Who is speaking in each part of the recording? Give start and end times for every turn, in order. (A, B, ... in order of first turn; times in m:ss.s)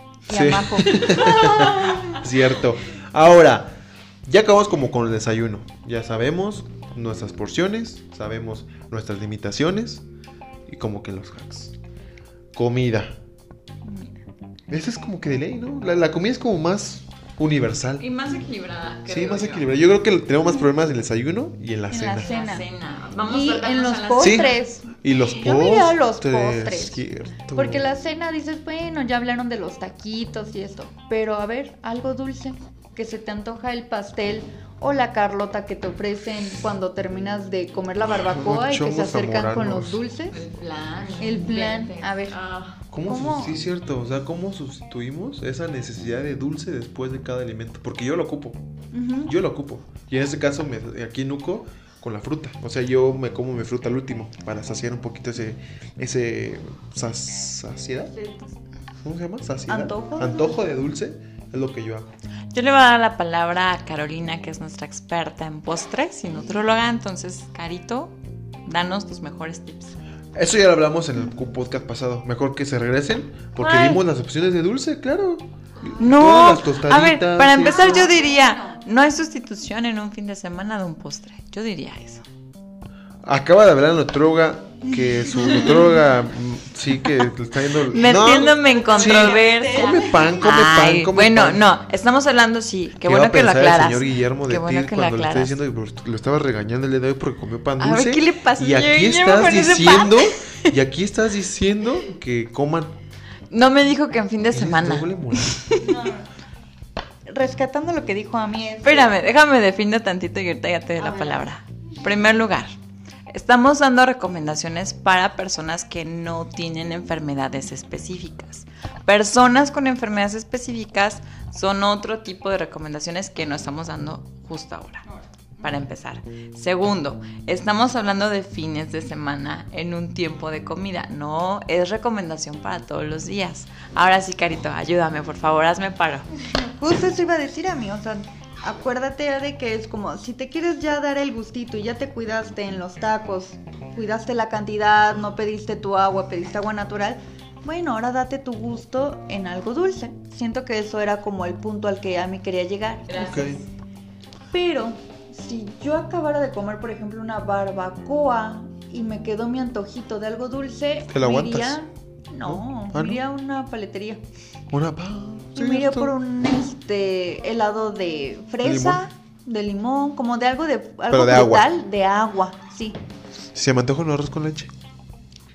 0:00.3-0:02.1 A
0:00.3-0:03.7 B
0:00.8-0:02.2 C
0:04.2-0:10.0 B
0:10.7-0:11.7 B
0:12.6-0:13.2 B
0:13.8-0:14.2 A
0:14.7-0:18.0 B
0:18.0-0:19.7 C
0:19.1-0:22.3 B
0:21.9-0:22.7 A
0:22.2-0:24.6 C
0:23.3-0:40.4 A
0:24.2-0:27.9 B
0:38.2-0:40.0 B
0:40.3-0:42.8 C
0:41.2-0:42.4 A
0:42.9-0:48.6 B
0:43.0-0:43.6 A
0:48.9-0:49.4 A
0:49.2-0:58.1 B
0:58.1-0:58.6 A
0:59.0-1:02.1 B
0:59.7-1:00.6 A
1:02.5-1:10.0 C
1:10.4-1:18.1 B
1:13.6-1:14.0 C
1:16.0-1:22.2 C
1:17.6-1:18.8 A
1:23.2-1:31.6 B
1:24.9-1:25.9 A
1:27.9-1:35.6 C
1:28.5-1:30.5 A
1:33.0-1:42.9 B
1:37.8-1:40.7 C
1:43.5-1:46.1 C
1:44.5-1:45.6 B
1:45.8-1:46.3 A
1:47.3-1:49.1 A
1:48.8-1:52.8 C
1:51.0-1:51.5 A
1:53.3-2:05.0 C
2:05.6-2:16.3 C
2:16.5-2:33.5 A
2:33.1-2:33.7 C
2:33.2-2:33.6 B
2:34.5-2:44.2 A
2:41.1-2:41.8 B
2:42.4-2:43.2 B
2:44.7-2:46.1 B
2:45.6-2:53.0 A
2:48.6-2:49.0 B
2:51.1-2:51.7 B
2:53.5-2:54.7 B